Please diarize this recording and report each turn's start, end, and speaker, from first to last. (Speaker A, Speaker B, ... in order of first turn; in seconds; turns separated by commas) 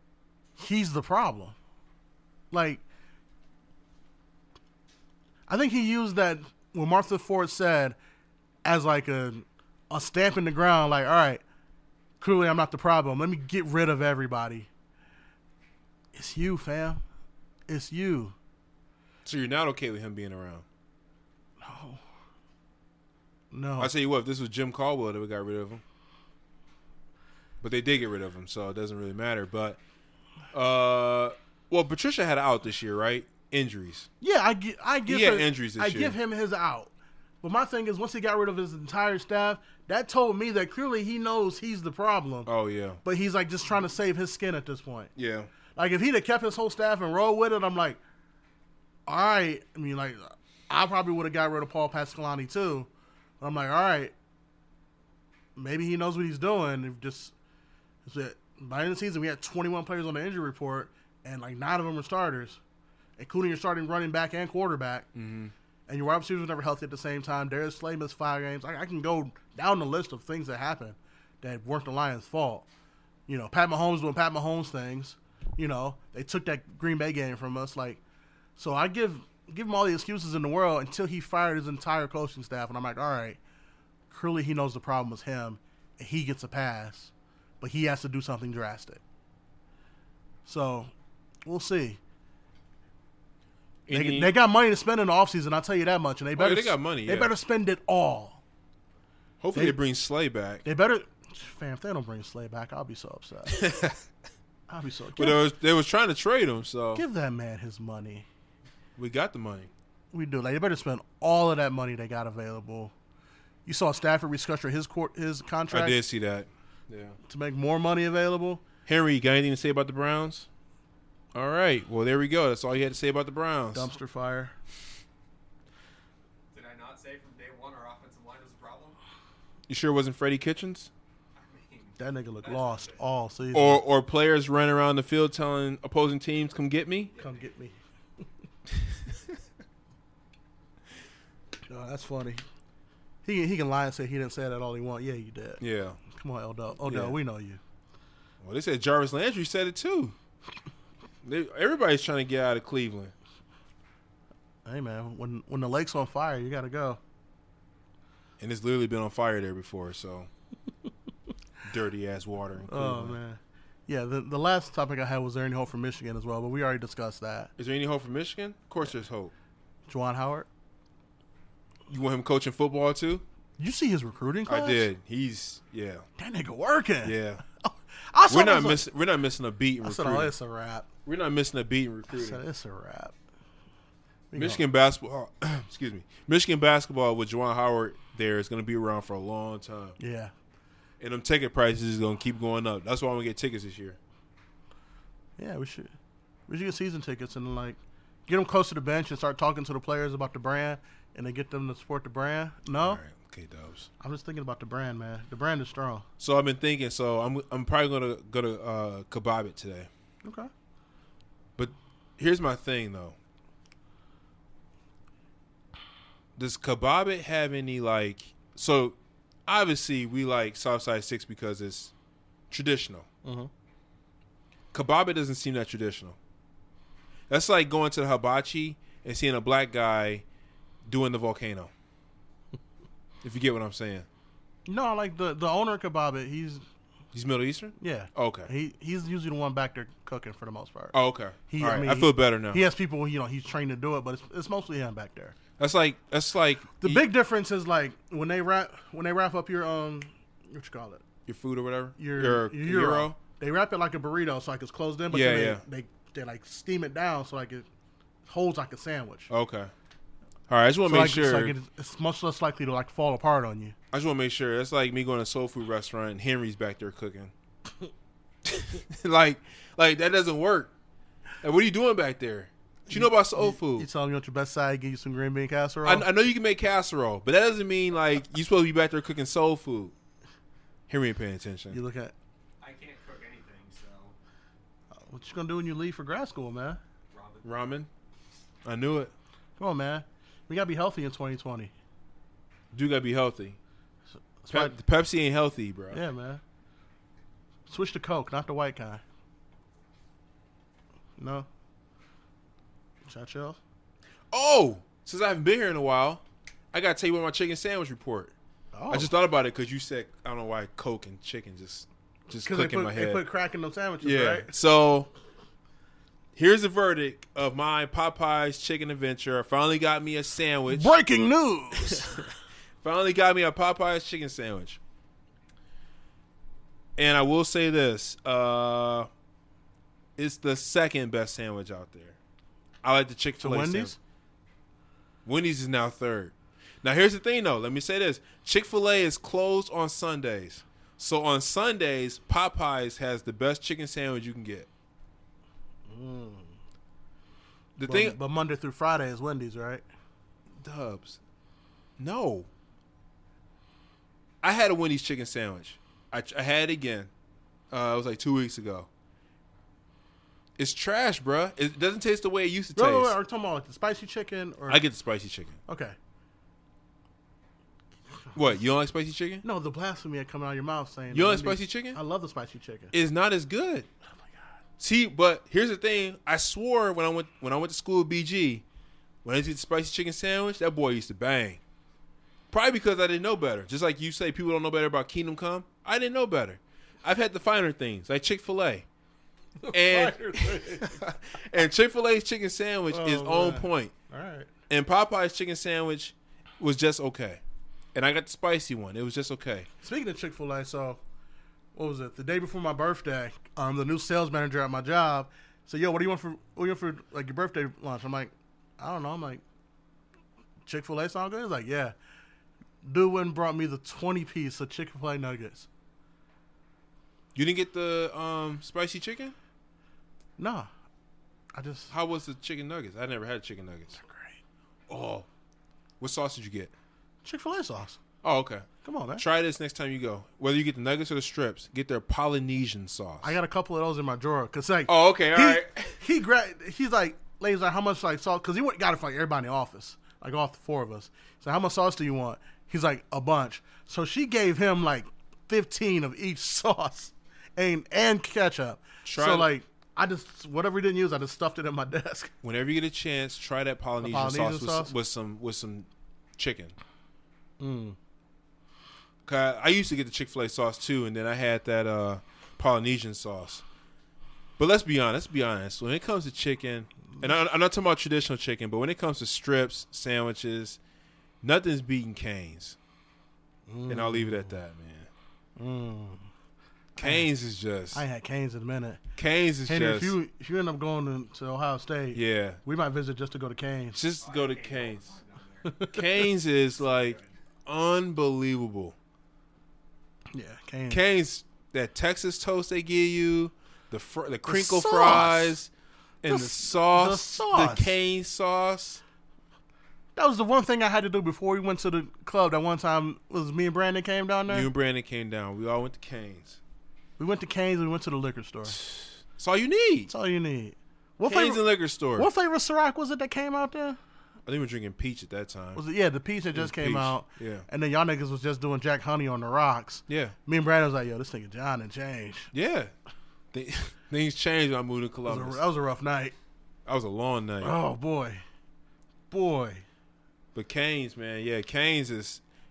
Speaker A: 0.6-1.6, Speaker A: 2.5-2.8, Speaker A: 5.5-8.0, Speaker A: 8.7-11.4, Speaker A: 12.2-14.7, Speaker A: 16.1-17.0, Speaker A: 17.7-18.4, Speaker B: 19.2-20.6, Speaker A: 21.6-22.0, Speaker A: 23.5-23.9, Speaker B: 23.8-25.8, Speaker B: 27.6-29.8, Speaker B: 30.5-34.1, Speaker A: 34.2-42.5, Speaker B: 35.1-36.1, Speaker B: 42.5-43.0, Speaker A: 43.0-45.1, Speaker B: 45.2-45.5, Speaker A: 45.8-48.0, Speaker A: 49.1-52.9, Speaker A: 53.4-54.1, Speaker A: 55.6-57.3, Speaker A: 58.0-62.6, Speaker A: 63.2-65.1, Speaker B: 65.2-65.5, Speaker A: 65.9-72.7, Speaker A: 73.3-78.0, Speaker A: 78.6-83.4, Speaker A: 84.1-89.0, Speaker A: 90.5-90.9, Speaker A: 91.5-92.0, Speaker B: 93.9-94.3, Speaker A: 93.9-98.4, Speaker B: 96.4-97.3, Speaker B: 99.4-100.6, Speaker A: 100.7-103.6, Speaker B: 103.5-104.0, Speaker A: 104.7-105.4, Speaker B: 105.2-107.0, Speaker A: 107.0-108.3, Speaker B: 109.0-109.7, Speaker A: 110.1-112.9, Speaker A: 113.7-116.0, Speaker B: 115.7-117.2, Speaker A: 117.3-118.6, Speaker B: 118.9-120.5, Speaker B: 121.3-123.9, Speaker A: 123.7-124.5, Speaker C: 126.5-129.0, Speaker B: 129.7-130.9, Speaker C: 131.4-133.0, Speaker A: 132.0-133.8, Speaker B: 133.5-137.1, Speaker C: 137.1-137.4, Speaker A: 137.2-137.8, Speaker A: 141.7-142.4, Speaker A: 143.2-147.6, Speaker B: 145.6-146.0, Speaker B: 146.8-147.2, Speaker B: 148.4-150.2, Speaker B: 151.2-153.1, Speaker A: 154.7-157.0, Speaker B: 158.4-160.3, Speaker B: 161.7-163.2, Speaker A: 162.7-167.5, Speaker B: 167.6-169.3, Speaker A: 169.9-170.5, Speaker B: 171.9-173.2, Speaker A: 173.6-174.9, Speaker B: 174.5-176.0, Speaker A: 176.2-178.8, Speaker B: 177.0-177.4, Speaker B: 178.3-180.3, Speaker A: 179.8-180.9, Speaker B: 181.1-182.4, Speaker A: 182.1-183.2, Speaker A: 184.3-184.6, Speaker B: 184.3-190.0, Speaker A: 190.0-190.3, Speaker B: 191.0-194.0, Speaker A: 195.4-195.9, Speaker A: 196.5-203.0, Speaker B: 202.8-203.9, Speaker A: 204.0-206.1, Speaker B: 206.2-209.9, Speaker A: 210.2-210.5, Speaker B: 211.6-213.2, Speaker B: 216.4-219.0, Speaker B: 219.5-221.9, Speaker B: 222.5-223.1, Speaker A: 223.2-223.5, Speaker B: 224.7-226.2, Speaker B: 227.3-230.2, Speaker B: 230.8-231.7, Speaker B: 233.2-234.1, Speaker A: 234.7-236.6, Speaker B: 237.1-238.5, Speaker A: 237.8-240.9, Speaker B: 240.9-242.6, Speaker A: 241.5-245.4, Speaker B: 245.6-247.1, Speaker A: 246.8-251.0, Speaker B: 251.3-253.2, Speaker A: 252.0-257.7, Speaker B: 255.1-255.6, Speaker A: 258.3-259.3, Speaker B: 259.3-259.7, Speaker B: 260.5-261.6, Speaker A: 260.9-263.8, Speaker B: 263.9-267.3, Speaker B: 268.4-270.7, Speaker B: 271.4-273.9, Speaker A: 272.9-276.1, Speaker B: 275.8-279.9, Speaker B: 280.9-281.8, Speaker A: 281.7-282.1, Speaker C: 282.6-284.1, Speaker A: 285.0-286.8, Speaker C: 287.1-287.5, Speaker B: 287.4-287.9, Speaker B: 288.6-289.1, Speaker A: 289.6-291.7, Speaker B: 292.7-293.6, Speaker A: 294.4-294.7, Speaker B: 294.5-296.0, Speaker A: 295.9-296.4, Speaker A: 297.7-299.0, Speaker A: 301.2-301.5, Speaker A: 303.1-303.6, Speaker B: 304.3-308.3, Speaker A: 308.7-309.1, Speaker B: 308.9-313.2, Speaker A: 312.4-314.5, Speaker B: 314.0-315.1, Speaker B: 316.4-320.9, Speaker A: 320.7-322.2, Speaker B: 321.9-322.2, Speaker B: 322.8-324.8, Speaker B: 327.0-329.1, Speaker B: 330.2-332.2, Speaker B: 332.8-334.0, Speaker A: 333.4-334.0, Speaker B: 335.2-344.7, Speaker A: 345.9-346.6, Speaker B: 347.8-348.2, Speaker A: 347.9-349.8, Speaker B: 350.6-351.2, Speaker B: 352.0-352.5, Speaker B: 354.4-357.1, Speaker B: 357.7-358.9, Speaker B: 360.6-363.2, Speaker A: 362.8-364.8, Speaker B: 364.7-365.6, Speaker A: 365.7-366.0, Speaker B: 368.4-369.4, Speaker A: 369.4-372.9, Speaker B: 371.1-372.0, Speaker B: 372.9-373.9, Speaker B: 374.8-378.6, Speaker B: 379.2-381.6, Speaker B: 382.5-388.9, Speaker A: 389.6-391.0, Speaker B: 389.7-393.9, Speaker A: 392.9-394.5, Speaker B: 394.7-397.4, Speaker B: 397.9-399.7, Speaker A: 399.8-401.0, Speaker A: 401.8-409.4, Speaker A: 410.7-411.9, Speaker A: 412.8-415.7, Speaker B: 417.4-419.4, Speaker A: 420.4-420.7, Speaker A: 421.5-421.9, Speaker B: 421.9-424.0, Speaker A: 424.0-424.4, Speaker B: 424.9-425.3, Speaker B: 426.0-426.7, Speaker A: 427.2-428.0, Speaker B: 428.2-428.7, Speaker A: 428.8-429.2, Speaker B: 429.2-433.4, Speaker A: 433.2-452.3, Speaker B: 434.9-436.0, Speaker B: 449.0-449.5, Speaker B: 452.4-456.8, Speaker A: 454.0-454.9, Speaker A: 457.6-458.0, Speaker B: 459.2-463.6, Speaker B: 464.6-470.8, Speaker B: 471.4-472.8, Speaker A: 473.7-474.5, Speaker B: 473.9-475.1, Speaker A: 475.6-476.3, Speaker B: 477.0-478.0, Speaker A: 477.0-477.3, Speaker A: 477.9-479.0, Speaker B: 479.2-480.1, Speaker A: 479.7-484.0, Speaker B: 482.1-482.6, Speaker B: 483.9-485.2, Speaker C: 484.2-485.7, Speaker A: 485.7-486.0, Speaker B: 485.9-488.9, Speaker C: 486.8-487.3, Speaker A: 490.3-491.0, Speaker B: 490.9-495.7, Speaker A: 494.5-495.6, Speaker B: 496.2-499.0, Speaker A: 496.3-497.9, Speaker A: 500.1-504.7, Speaker B: 504.5-506.6, Speaker A: 507.2-508.8, Speaker B: 508.7-510.1, Speaker A: 510.1-511.6, Speaker B: 511.3-512.3, Speaker A: 512.2-514.0, Speaker B: 514.5-515.8, Speaker A: 515.8-522.5, Speaker B: 516.5-517.7, Speaker B: 520.1-520.4, Speaker B: 522.5-522.9, Speaker B: 523.5-525.6, Speaker A: 525.3-526.4, Speaker B: 526.9-527.8, Speaker A: 527.6-528.4, Speaker A: 529.3-529.9, Speaker B: 530.5-532.4